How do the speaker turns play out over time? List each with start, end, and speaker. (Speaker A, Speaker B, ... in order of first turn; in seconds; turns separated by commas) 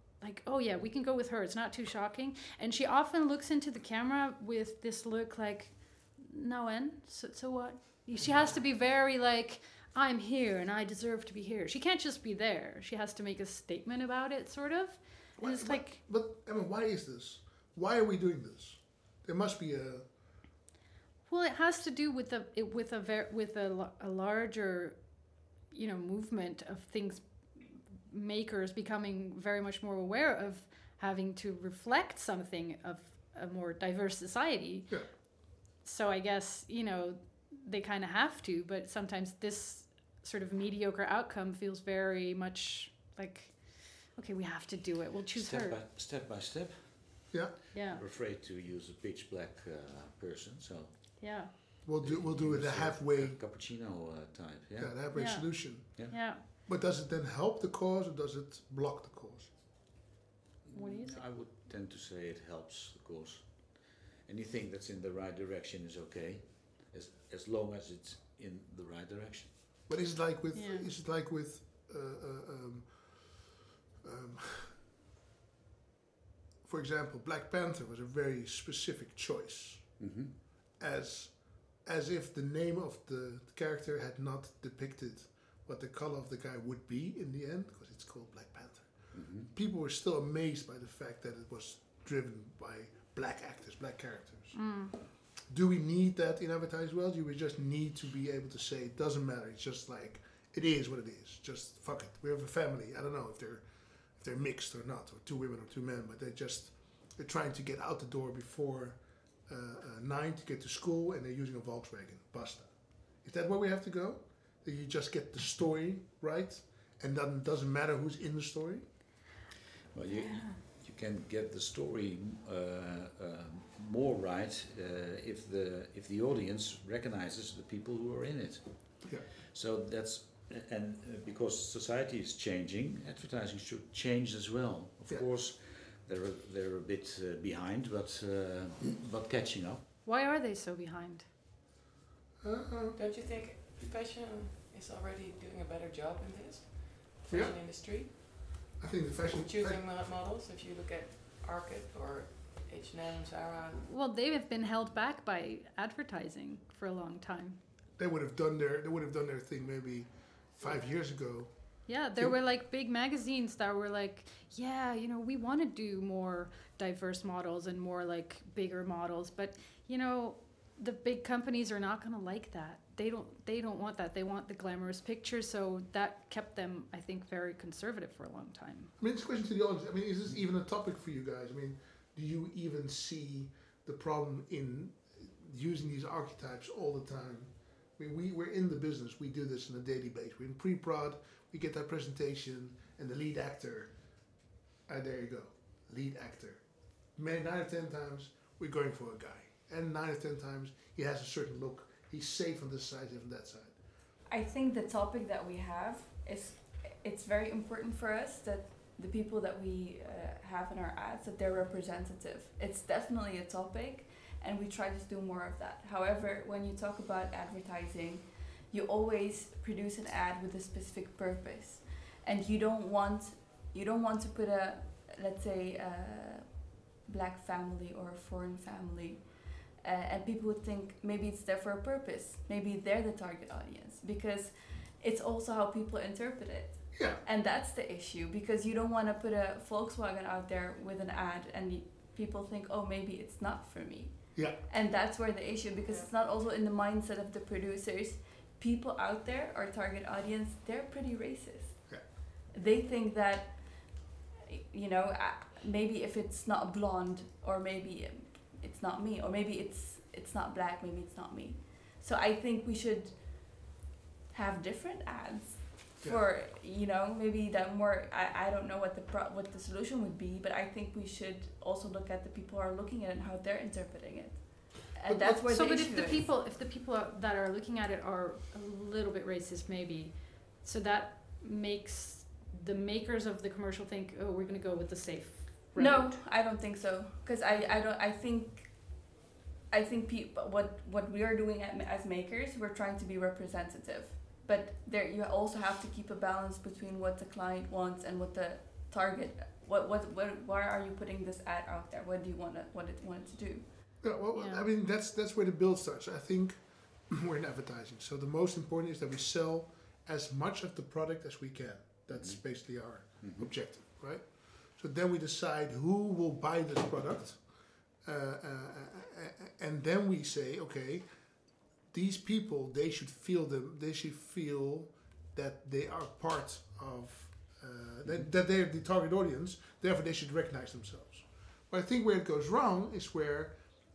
Speaker A: 0.2-16.0, Speaker B: 15.4-20.1, Speaker A: 21.3-25.0, Speaker A: 25.7-35.0, Speaker A: 35.8-45.8, Speaker C: 45.3-46.9, Speaker A: 47.7-48.0, Speaker C: 47.9-51.1, Speaker A: 51.2-51.5, Speaker B: 51.9-53.4, Speaker C: 52.0-55.0, Speaker B: 54.8-59.5, Speaker A: 55.1-56.4, Speaker C: 60.6-69.5, Speaker A: 60.7-61.2, Speaker B: 69.9-72.9, Speaker A: 70.5-70.9, Speaker B: 74.0-74.8, Speaker B: 76.7-79.9, Speaker C: 80.0-80.3, Speaker B: 80.8-94.6, Speaker C: 89.1-89.5, Speaker A: 94.5-95.0, Speaker B: 95.5-103.6, Speaker B: 104.2-112.7, Speaker B: 113.2-118.8, Speaker C: 119.9-128.7, Speaker A: 120.2-120.5, Speaker C: 129.5-139.8, Speaker A: 140.1-141.2, Speaker B: 142.4-143.0, Speaker D: 143.0-148.4, Speaker B: 147.3-147.6, Speaker B: 148.8-149.8, Speaker D: 149.3-153.8, Speaker A: 153.8-157.6, Speaker B: 158.0-161.5, Speaker A: 161.9-178.9, Speaker B: 179.0-193.9, Speaker B: 194.9-196.6, Speaker B: 197.2-203.8, Speaker E: 204.3-229.2, Speaker E: 229.8-251.8, Speaker B: 236.9-237.2, Speaker B: 244.3-244.6, Speaker E: 252.5-253.8, Speaker E: 254.4-263.7, Speaker E: 264.3-276.3, Speaker B: 275.1-275.5, Speaker A: 275.5-286.1, Speaker E: 285.8-289.1, Speaker E: 289.7-303.6, Speaker B: 304.0-306.6, Speaker A: 304.3-304.6, Speaker B: 307.1-317.4, Speaker C: 312.1-312.4, Speaker C: 313.2-313.5, Speaker B: 318.1-321.0, Speaker B: 321.9-333.6